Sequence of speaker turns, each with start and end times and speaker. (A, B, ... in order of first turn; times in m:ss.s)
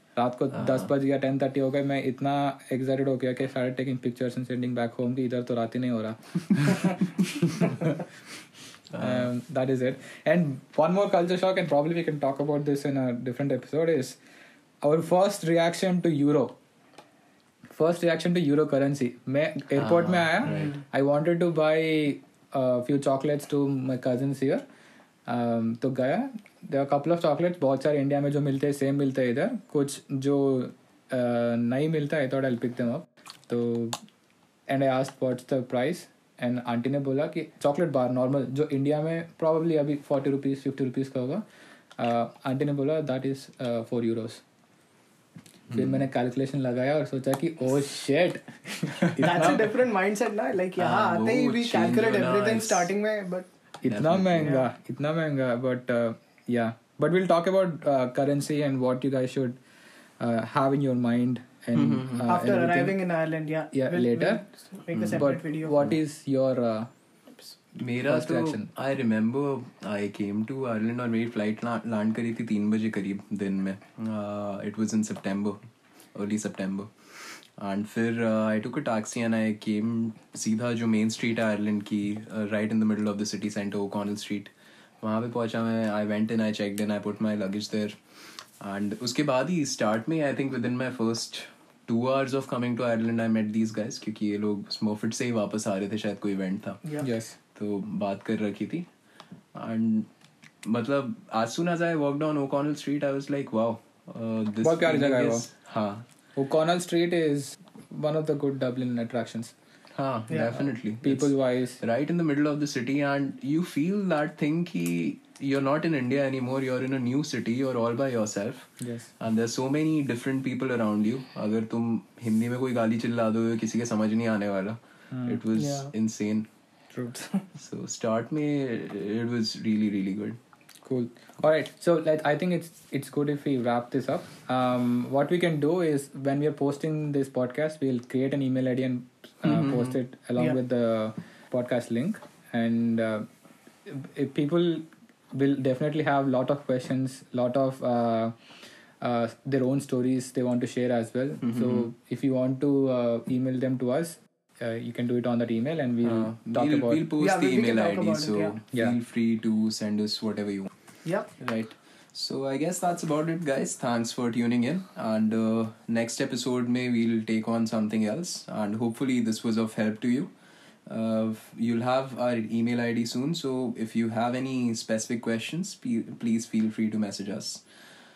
0:00.2-0:08.0 A
0:00.6-0:00.9 B
0:08.9-0:09.3 B
0:09.0-0:14.2 A
0:14.8-0:16.6 A
0:17.7-0:24.6 A
0:19.8-0:20.8 B
0:25.3-0:34.0 A
0:34.7-0:41.4 A
0:42.0-0:44.4 A
0:45.7-0:46.0 B
0:45.7-0:49.7 A
0:49.2-0:53.5 C
0:50.8-0:52.9 B
0:53.8-0:59.6 A
0:53.9-0:54.5 B
1:00.2-1:03.0 A
1:01.7-1:02.3 B
1:02.2-1:05.8 C
1:03.7-1:04.4 A
1:05.0-1:05.2 B
1:05.1-1:06.9 A
1:07.8-1:15.6 B
1:08.1-1:08.7 A
1:16.2-1:16.9 B
1:17.6-1:24.5 B
1:25.0-1:27.9 B
1:28.6-1:36.8 B
1:37.0-1:37.4 A
1:37.6-1:38.9 B
1:39.5-1:40.1 B
1:40.6-1:46.0 B
1:44.6-1:45.4 A
1:46.4-1:49.5 A
1:50.0-2:06.5 B
1:50.3-1:50.6 C
1:51.0-1:51.8 A
1:58.8-1:59.1 A
2:05.1-2:05.4 A
2:05.6-2:05.9 C
2:06.9-2:07.2 A
2:07.6-2:10.4 B
2:10.8-2:23.3 A
2:19.4-2:20.0 B
2:23.8-2:28.4 A
2:29.0-2:37.1 A
2:31.4-2:31.9 B
2:36.0-2:40.7 B
2:37.2-2:38.6 C
2:41.0-2:41.3 C
2:41.4-2:50.3 B
2:50.9-2:57.6 B